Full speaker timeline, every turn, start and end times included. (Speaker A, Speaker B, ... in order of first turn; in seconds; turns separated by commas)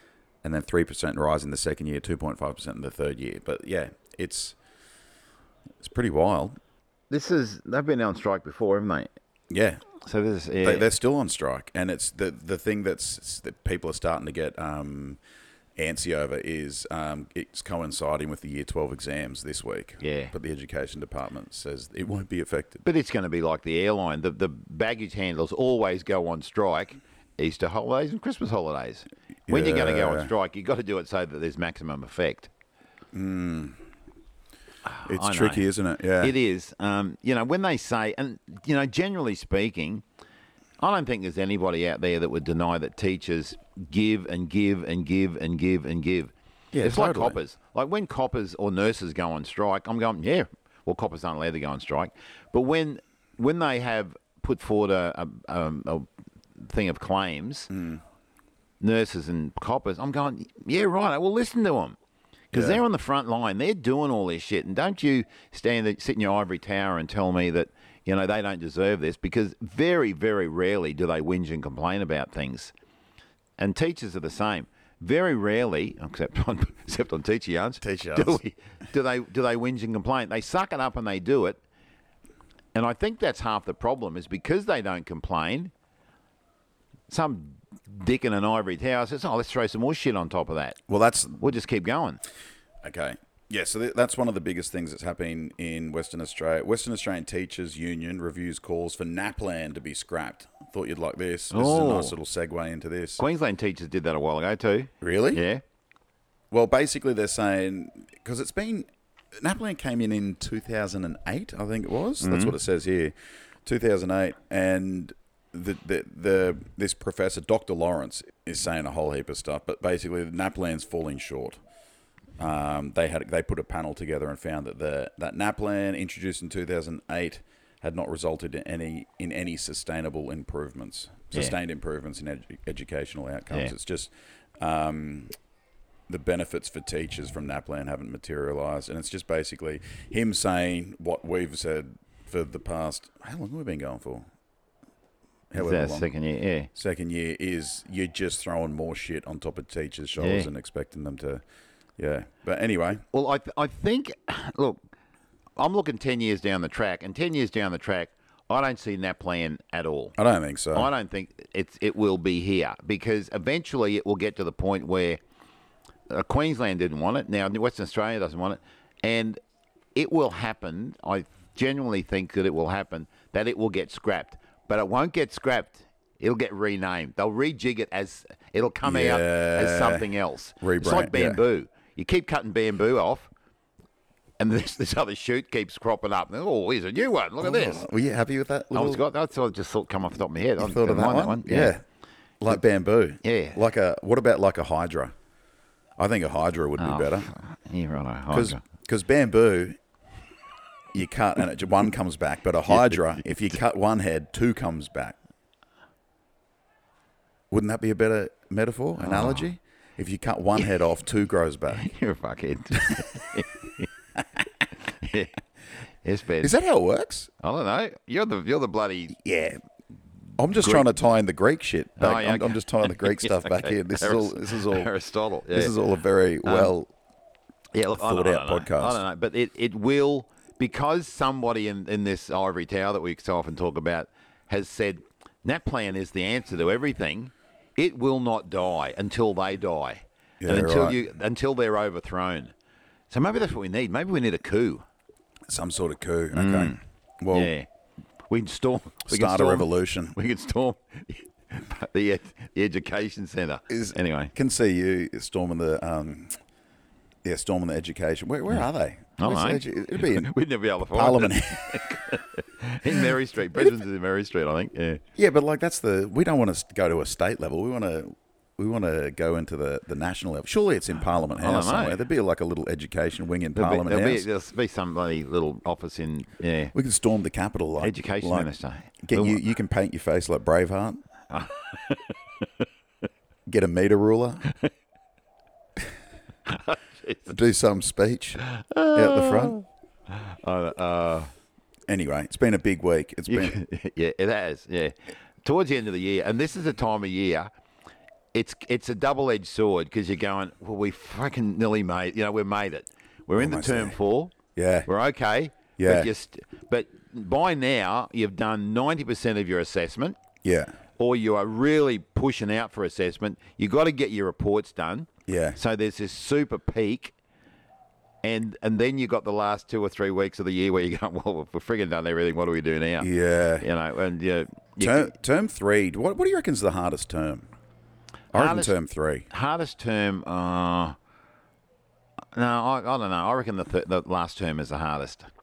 Speaker A: 0.4-4.6, Speaker A: 5.8-6.6, Speaker B: 7.1-9.1, Speaker A: 9.5-9.9, Speaker B: 10.0-10.9, Speaker A: 10.6-15.2, Speaker A: 15.8-22.9, Speaker B: 20.0-20.3, Speaker B: 22.8-32.5, Speaker A: 29.5-30.3, Speaker A: 33.1-33.8, Speaker B: 34.9-35.7, Speaker A: 35.0-36.4, Speaker B: 36.2-40.0, Speaker B: 40.8-57.7, Speaker A: 46.7-47.4, Speaker A: 57.7-58.0, Speaker B: 58.8-62.0, Speaker B: 62.5-72.7, Speaker A: 62.5-62.8, Speaker B: 73.6-81.6, Speaker A: 77.8-78.4, Speaker B: 82.7-85.7, Speaker B: 87.1-90.8, Speaker A: 90.9-91.5, Speaker B: 91.4-92.2, Speaker A: 92.8-103.2, Speaker B: 101.5-102.2, Speaker B: 103.2-105.6, Speaker A: 105.0-105.4, Speaker A: 106.5-108.9, Speaker A: 109.4-113.1, Speaker B: 112.2-112.5, Speaker A: 113.7-121.6, Speaker A: 122.4-135.3, Speaker A: 136.1-144.3, Speaker A: 145.5-146.1, Speaker B: 145.6-146.7, Speaker A: 146.7-151.4, Speaker B: 150.2-150.5, Speaker A: 152.0-153.0, Speaker B: 153.1-154.8, Speaker B: 155.6-160.2, Speaker A: 160.2-160.9, Speaker B: 160.7-165.2, Speaker B: 166.1-169.4, Speaker B: 169.9-183.3, Speaker A: 178.8-181.4, Speaker B: 184.4-187.9, Speaker A: 187.4-189.0, Speaker B: 188.7-191.8, Speaker A: 190.6-191.8, Speaker A: 192.4-195.1, Speaker B: 193.2-193.6, Speaker A: 196.0-197.3, Speaker B: 196.8-198.6, Speaker A: 198.3-199.8, Speaker A: 200.9-205.2, Speaker A: 207.5-211.9, Speaker B: 209.0-209.5, Speaker B: 211.8-213.9, Speaker B: 214.7-216.5, Speaker A: 216.4-217.3, Speaker B: 217.4-219.2, Speaker A: 219.2-219.6, Speaker A: 220.4-224.9, Speaker B: 220.6-220.9, Speaker B: 222.0-225.7, Speaker A: 225.5-226.9, Speaker B: 226.4-226.7, Speaker B: 227.7-242.5, Speaker A: 227.9-229.0, Speaker A: 240.4-241.0, Speaker B: 243.1-244.8, Speaker A: 245.5-247.5, Speaker B: 246.3-246.8, Speaker B: 247.3-247.7, Speaker B: 248.3-254.3, Speaker A: 249.1-250.2, Speaker A: 253.7-256.4, Speaker A: 257.2-260.3, Speaker B: 259.2-265.0, Speaker A: 260.9-261.9, Speaker A: 265.2-274.3, Speaker B: 271.4-272.0, Speaker B: 273.6-276.7, Speaker A: 276.7-278.5, Speaker B: 277.8-279.4, Speaker A: 279.0-281.0, Speaker B: 281.3-282.6, Speaker A: 283.5-284.5, Speaker B: 286.5-287.3, Speaker A: 287.3-289.6, Speaker B: 288.5-291.3, Speaker A: 291.9-293.6, Speaker B: 293.3-297.5, Speaker B: 298.3-304.4, Speaker A: 303.4-304.0, Speaker A: 304.6-304.9, Speaker B: 304.9-310.2, Speaker A: 305.8-306.1, Speaker A: 310.4-310.8, Speaker B: 311.0-317.1, Speaker A: 315.3-315.6, Speaker B: 318.2-323.1, Speaker A: 323.0-323.7, Speaker B: 323.6-325.1, Speaker A: 324.8-327.5, Speaker A: 328.3-329.3, Speaker B: 328.3-328.8, Speaker B: 329.3-331.0, Speaker B: 332.3-335.3